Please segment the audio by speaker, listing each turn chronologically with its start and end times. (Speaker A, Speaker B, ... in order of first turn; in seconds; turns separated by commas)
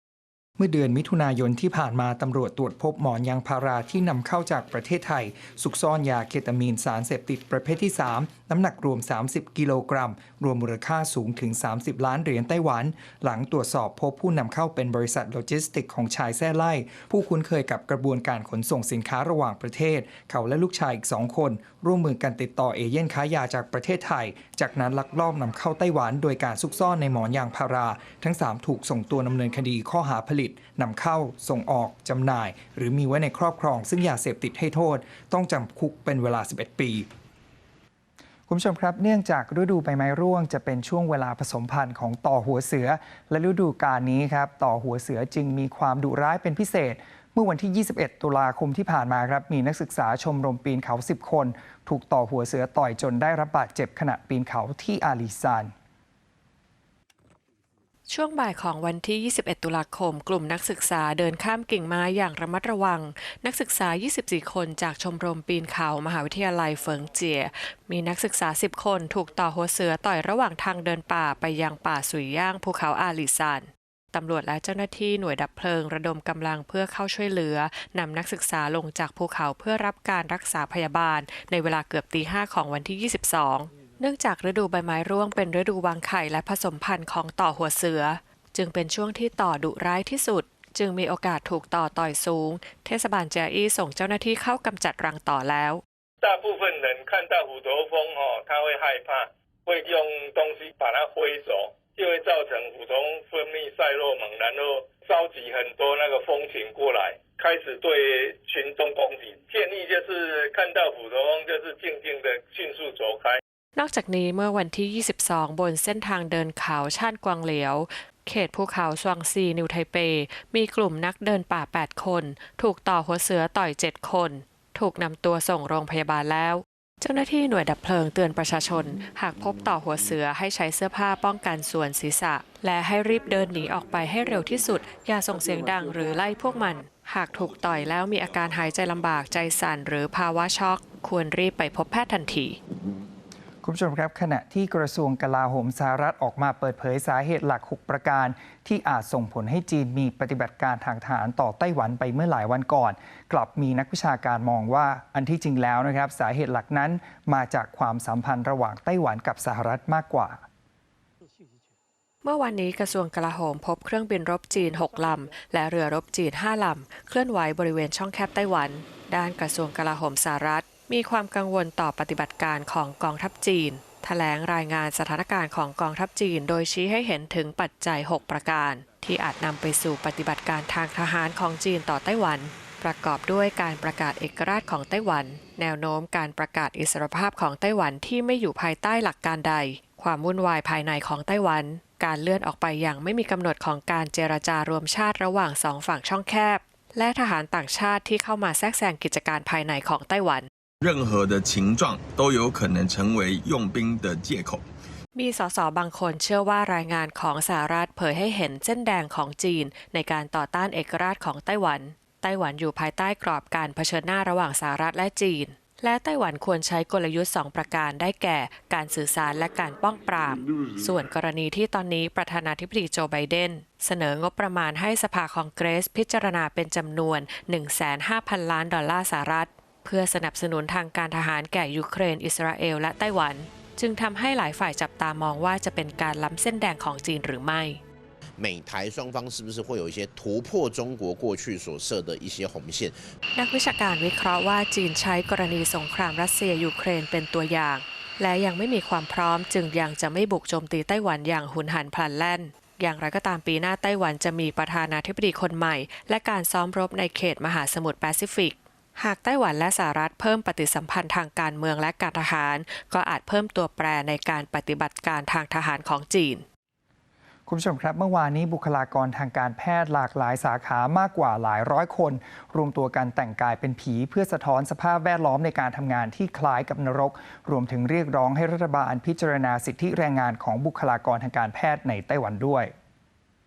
Speaker A: 0.6-37.1, Speaker A: 38.5-55.7, Speaker B: 58.1-95.8, Speaker C: 96.2-113.4, Speaker B: 113.8-142.6, Speaker A: 143.6-160.4, Speaker B: 162.2-200.5, Speaker D: 200.8-204.6, Speaker B: 205.2-237.8, Speaker E: 238.4-243.0, Speaker B: 243.3-266.4, Speaker A: 267.5-282.7